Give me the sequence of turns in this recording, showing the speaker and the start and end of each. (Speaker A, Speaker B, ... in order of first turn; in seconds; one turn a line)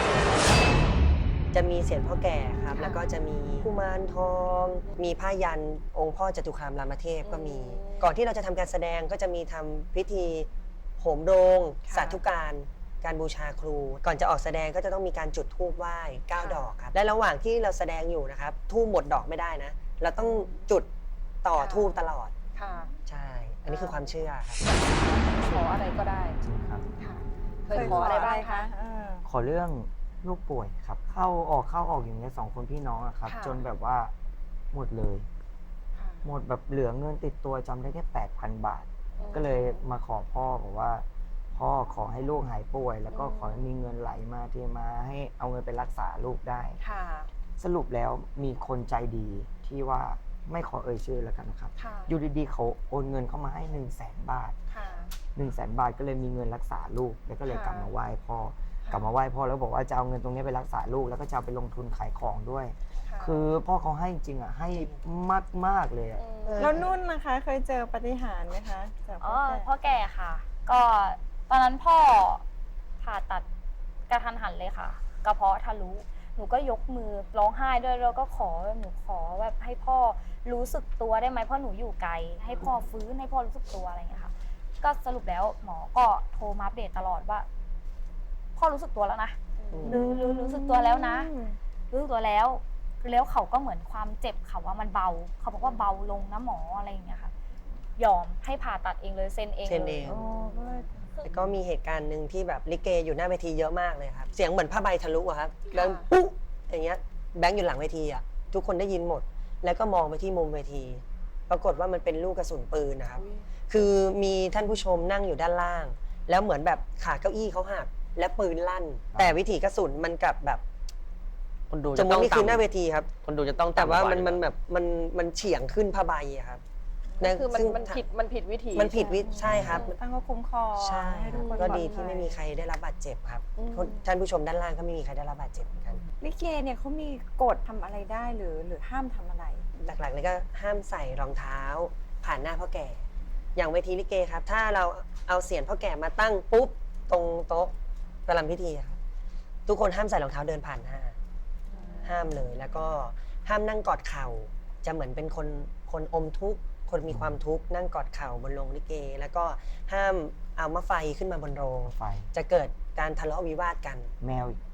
Speaker A: 1.5-10.5
Speaker B: 2.7-3.0
Speaker B: 7.2-8.1
Speaker A: 11.0-20.9
Speaker B: 11.9-12.2
Speaker B: 16.4-16.7
Speaker B: 20.2-20.6
Speaker A: 21.4-22.3
Speaker B: 21.5-22.0
Speaker B: 22.6-22.9
Speaker A: 23.1-24.6
Speaker B: 23.7-24.1
Speaker B: 24.7-26.4
Speaker C: 26.4-26.9
Speaker B: 27.0-28.7
Speaker D: 27.7-29.2
Speaker C: 27.7-28.1
Speaker C: 29.3-34.1
Speaker B: 33.2-33.6
Speaker C: 34.7-35.3
Speaker B: 36.0-36.2
Speaker C: 36.2-46.8
Speaker B: 39.2-39.8
Speaker B: 43.1-43.7
Speaker B: 46.8-47.3
Speaker C: 47.6-54.6
Speaker B: 51.8-52.1
Speaker B: 54.7-55.1
Speaker C: 55.4-66.2
Speaker B: 57.5-57.9
Speaker B: 58.8-59.1
Speaker B: 63.0-63.5
Speaker B: 66.2-66.7
Speaker A: 66.5-66.9
Speaker D: 66.6-69.7
Speaker E: 69.2-72.4
Speaker E: 73.0-73.4
Speaker E: 74.1-87.5
Speaker E: 88.6-91.3
Speaker B: 89.6-89.9
Speaker A: 89.7-90.0
Speaker D: 89.8-91.6
Speaker E: 91.9-97.3
Speaker B: 95.6-95.9
Speaker E: 98.0-100.2
Speaker A: 99.7-100.2
Speaker D: 100.0-101.2
Speaker A: 101.2-120.6
Speaker B: 105.7-106.1
Speaker B: 113.2-113.5
Speaker F: 121.7-122.7
Speaker A: 121.9-123.1
Speaker F: 123.2-124.4
Speaker A: 123.7-126.6
Speaker D: 127.1-128.0
Speaker A: 127.2-128.1
Speaker B: 127.2-129.0
Speaker A: 128.7-130.0
Speaker D: 128.9-132.4
Speaker C: 129.4-129.8
Speaker A: 130.8-136.0
Speaker B: 131.3-131.7
Speaker B: 133.6-134.0
Speaker D: 136.2-139.7
Speaker A: 139.8-147.7
Speaker A: 148.3-149.0
Speaker A: 149.7-151.2
Speaker B: 151.7-152.1
Speaker D: 151.7-152.2
Speaker A: 152.0-164.1
Speaker C: 157.1-157.4
Speaker C: 161.8-162.3
Speaker C: 164.2-164.6